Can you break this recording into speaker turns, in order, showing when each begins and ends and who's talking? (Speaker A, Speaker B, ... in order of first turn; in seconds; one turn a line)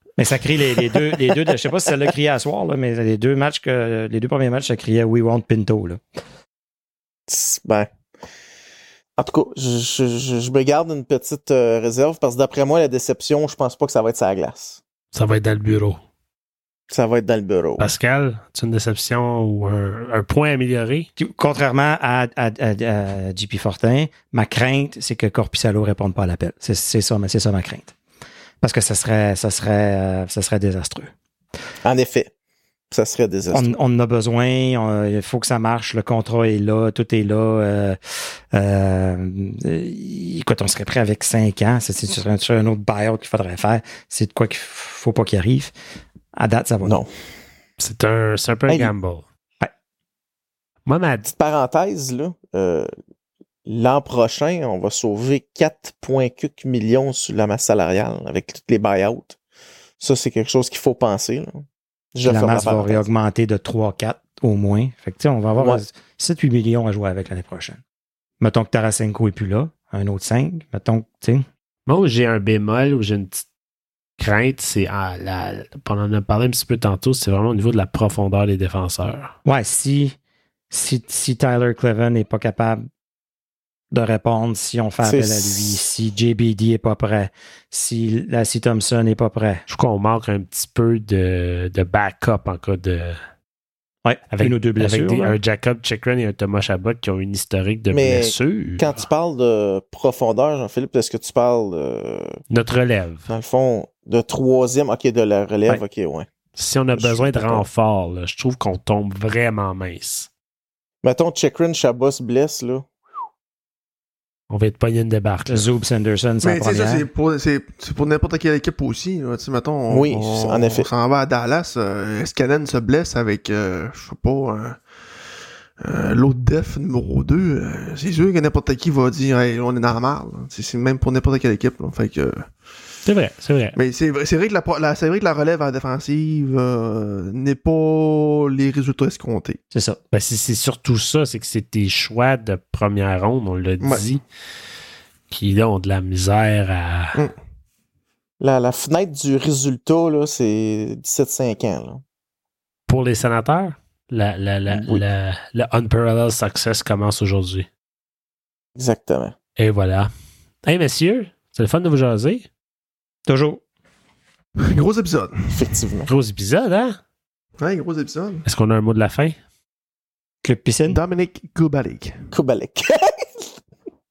Speaker A: 0.2-6.0
Speaker B: 1.1-1.6
Speaker B: 7.3-7.9
Speaker B: 9.2-14.8
Speaker C: 15.1-16.0
Speaker B: 16.9-17.9
Speaker C: 17.8-21.1
Speaker A: 21.2-27.9
Speaker A: 28.6-31.1
Speaker B: 31.8-32.3
Speaker B: 32.9-33.7
Speaker A: 33.5-45.7
Speaker A: 46.4-47.0
Speaker B: 46.8-47.1
Speaker C: 47.8-49.2
Speaker C: 50.9-51.3
Speaker B: 51.2-52.9
Speaker B: 53.6-59.4
Speaker B: 60.0-63.1
Speaker A: 62.2-67.8
Speaker A: 68.4-71.4
Speaker C: 71.8-73.4
Speaker C: 74.2-79.3
Speaker A: 79.4-80.2
Speaker A: 80.7-82.8
Speaker A: 83.9-89.6
Speaker B: 85.0-85.9
Speaker C: 89.7-93.2
Speaker A: 94.0-95.3
Speaker C: 94.3-99.0
Speaker B: 97.9-102.4
Speaker C: 102.5-103.3
Speaker B: 103.3-106.3
Speaker C: 106.5-110.3
Speaker B: 107.0-107.7
Speaker B: 111.0-112.9
Speaker C: 114.5-115.7
Speaker A: 115.5-117.1
Speaker D: 116.4-124.8
Speaker B: 119.9-120.9
Speaker D: 125.8-132.5
Speaker C: 133.0-133.8
Speaker D: 133.8-139.6
Speaker A: 139.7-140.0
Speaker C: 140.1-144.2
Speaker C: 145.3-147.2
Speaker B: 148.4-152.0
Speaker C: 152.9-157.7
Speaker B: 154.7-155.0
Speaker B: 158.8-159.3
Speaker C: 159.6-160.1
Speaker C: 160.6-162.5
Speaker A: 163.3-163.6
Speaker D: 164.6-165.6
Speaker B: 165.5-166.1
Speaker C: 166.1-167.0
Speaker D: 167.6-168.4
Speaker C: 168.4-169.3
Speaker A: 170.4-171.0
Speaker D: 170.9-172.1
Speaker B: 172.3-173.5